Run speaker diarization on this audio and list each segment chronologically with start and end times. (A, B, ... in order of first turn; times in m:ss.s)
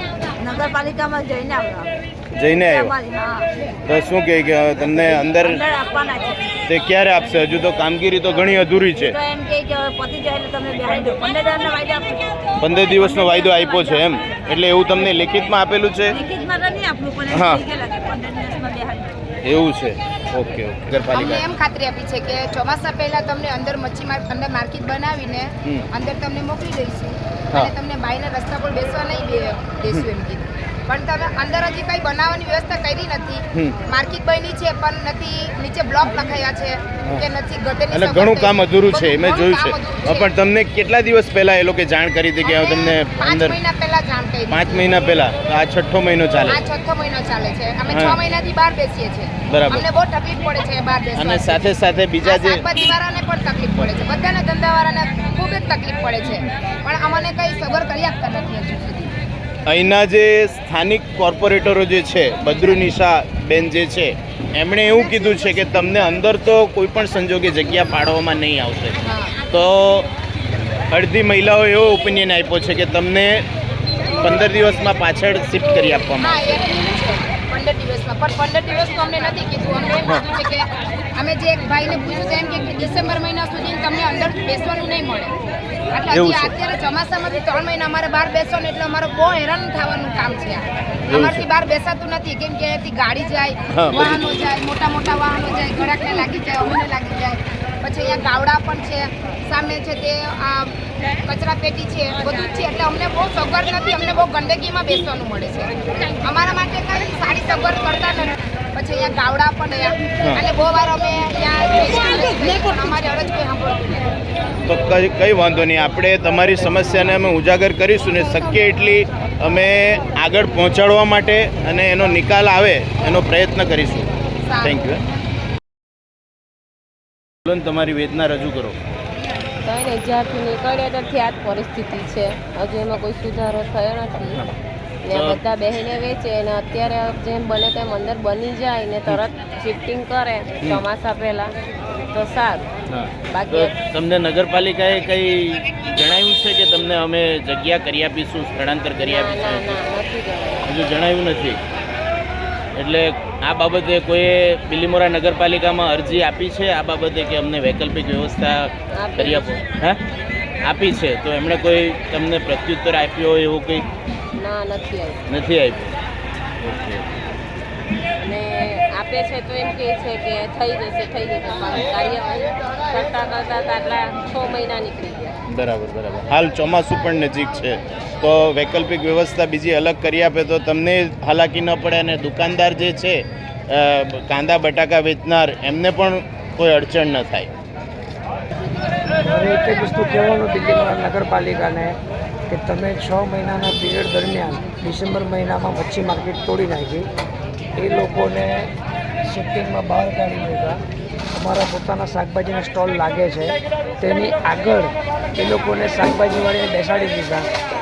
0:00.4-0:02.0 A
0:02.3-0:03.0 B
0:02.6-0:03.5 A
0:03.8-0:05.7 B
0:05.0-0:06.5 A
0:06.7-0:09.2 B
0:09.0-0:12.3 A
0:12.6-0:16.2 B
0:12.8-0:14.0 A
0:16.1-0:19.1 A
0:17.3-0:17.6 B
0:19.4-0:21.4 B
0:21.1-0:40.3 C
0:33.5-0:33.8 B
0:37.9-0:43.6 B
0:42.4-0:45.0 C
0:44.5-0:46.7 B
0:46.5-0:59.1 C
0:47.9-0:48.2 B
0:49.4-0:49.8 B
0:51.1-0:53.0 B
0:59.6-1:10.1 B
1:09.0-1:09.4 C
1:10.9-1:13.5 B
1:14.2-1:16.7 B
1:16.2-1:25.3 C
1:25.9-1:54.0 C
1:26.1-1:26.5 B
1:31.1-1:31.4 B
1:33.7-1:34.3 B
1:54.7-2:04.1 B
2:04.4-2:04.8 C
2:04.6-2:05.0 B
2:07.4-2:08.8 B
2:09.6-2:14.4 D
2:15.0-2:21.5 D
2:15.1-2:15.4 B
2:22.1-2:22.7 D
2:22.9-2:29.8 B
2:23.3-2:23.8 D
2:29.0-2:30.7 D
2:30.6-2:31.6 B
2:32.7-2:40.0 B
2:38.9-2:39.6 D
2:40.6-2:43.9 B
2:44.4-2:45.2 D
2:45.3-2:46.0 B
2:46.6-2:47.0 B
2:48.2-2:55.3 D
2:55.5-3:07.5 B
3:09.2-3:12.0 E
3:12.5-3:17.1 E
3:17.8-3:18.7 E
3:19.2-3:20.8 E
3:21.3-3:27.5 E